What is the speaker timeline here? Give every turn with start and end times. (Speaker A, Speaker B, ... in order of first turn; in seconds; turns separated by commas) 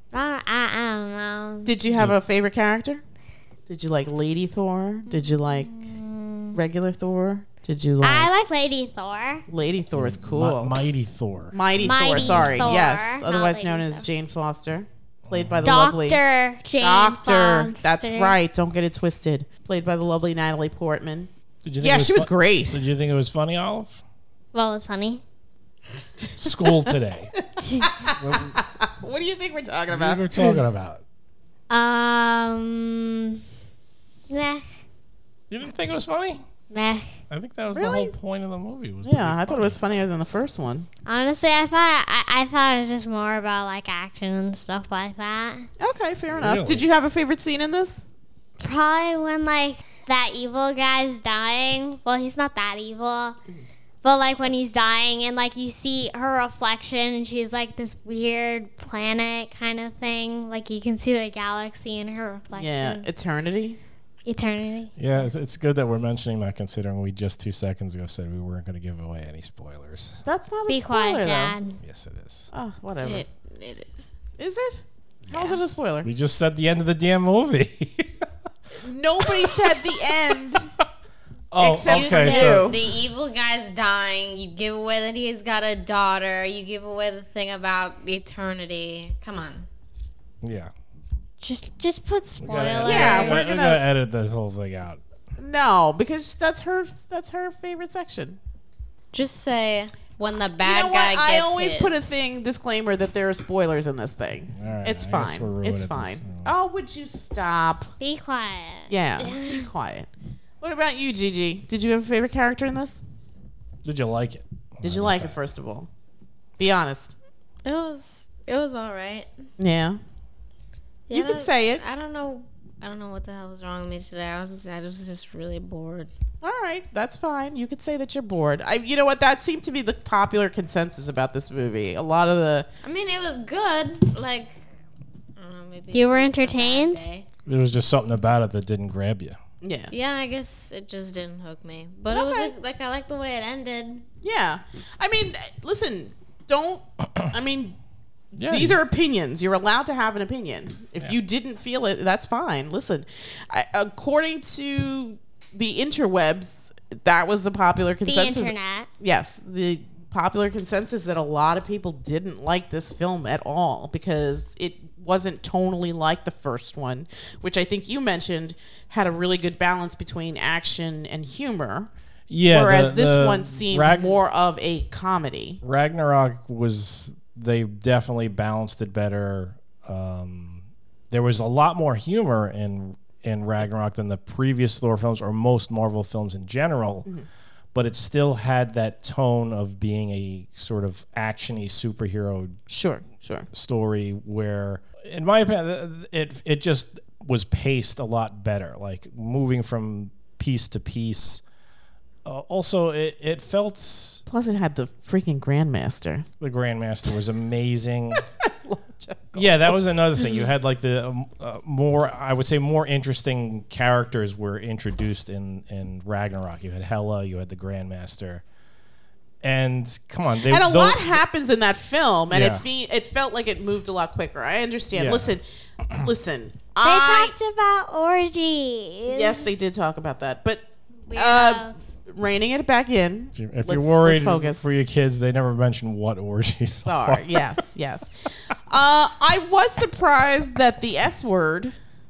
Speaker A: 0.1-1.7, Speaker B: 1.6-3.0, Speaker B: 3.7-5.7, Speaker A: 5.1-6.5, Speaker B: 6.5-8.3, Speaker A: 8.0-9.4, Speaker B: 9.5-10.7, Speaker C: 9.9-11.6, Speaker B: 11.5-16.2, Speaker A: 11.8-14.0, Speaker C: 12.1-12.7, Speaker C: 15.2-15.7, Speaker A: 15.6-18.4, Speaker B: 16.8-21.3, Speaker C: 21.6-24.0, Speaker B: 21.8-22.8, Speaker A: 24.5-25.2, Speaker B: 26.3-30.6, Speaker C: 26.4-27.3, Speaker C: 28.2-28.6, Speaker C: 29.9-31.0, Speaker A: 31.7-33.4, Speaker A: 34.3-34.7, Speaker C: 35.5-36.4, Speaker A: 36.7-37.1, Speaker C: 37.3-39.8, Speaker B: 37.7-38.1, Speaker B: 39.0-40.9, Speaker A: 41.0-45.7, Speaker B: 45.8-48.0, Speaker C: 46.3-46.9, Speaker A: 48.6-53.4, Speaker A: 54.0-63.0, Speaker B: 62.5-63.8, Speaker A: 64.2-64.9, Speaker C: 65.0-70.2, Speaker B: 70.2-71.5, Speaker A: 70.7-71.8, Speaker C: 71.8-72.5, Speaker B: 72.5-73.2, Speaker D: 73.0-74.1, Speaker B: 74.4-76.1, Speaker C: 75.2-78.3, Speaker B: 78.7-80.7, Speaker C: 79.2-80.0, Speaker C: 80.5-80.8, Speaker C: 81.5-82.9, Speaker B: 81.6-82.8, Speaker D: 81.8-89.7, Speaker C: 90.4-90.7, Speaker A: 91.4-93.7, Speaker C: 92.4-95.0, Speaker B: 92.8-93.8, Speaker B: 95.4-98.4, Speaker D: 99.1-102.2, Speaker B: 100.6-107.9, Speaker C: 104.5-106.5, Speaker A: 108.0-109.7, Speaker B: 108.9-110.1, Speaker B: 110.6-113.0, Speaker C: 113.8-115.4, Speaker B: 114.8-115.9, Speaker B: 116.6-117.2, Speaker D: 117.6-119.3, Speaker B: 119.6-120.0, Speaker D: 121.1-126.1, Speaker B: 121.1-121.8, Speaker B: 126.4-132.7, Speaker D: 132.8-134.5, Speaker D: 135.4-137.2, Speaker A: 135.9-137.0, Speaker C: 137.4-139.4, Speaker B: 139.6-139.9, Speaker D: 139.9-144.0, Speaker B: 142.1-142.5, Speaker B: 144.2-147.8, Speaker B: 148.3-171.9, Speaker C: 148.4-148.8, Speaker A: 158.1-158.9, Speaker C: 172.3-174.2, Speaker B: 172.5-175.6, Speaker C: 175.6-187.1, Speaker C: 187.7-192.6, Speaker B: 192.7-193.5, Speaker C: 193.5-201.4, Speaker C: 202.2-204.2, Speaker B: 204.3-206.2, Speaker C: 206.4-208.2, Speaker B: 208.4-210.4, Speaker C: 209.3-218.4, Speaker C: 219.4-221.2, Speaker B: 220.4-227.3, Speaker C: 222.3-222.6, Speaker C: 224.9-225.3, Speaker A: 226.8-229.6, Speaker B: 229.1-234.6, Speaker A: 231.1-231.8, Speaker C: 233.3-237.6, Speaker B: 236.8-241.7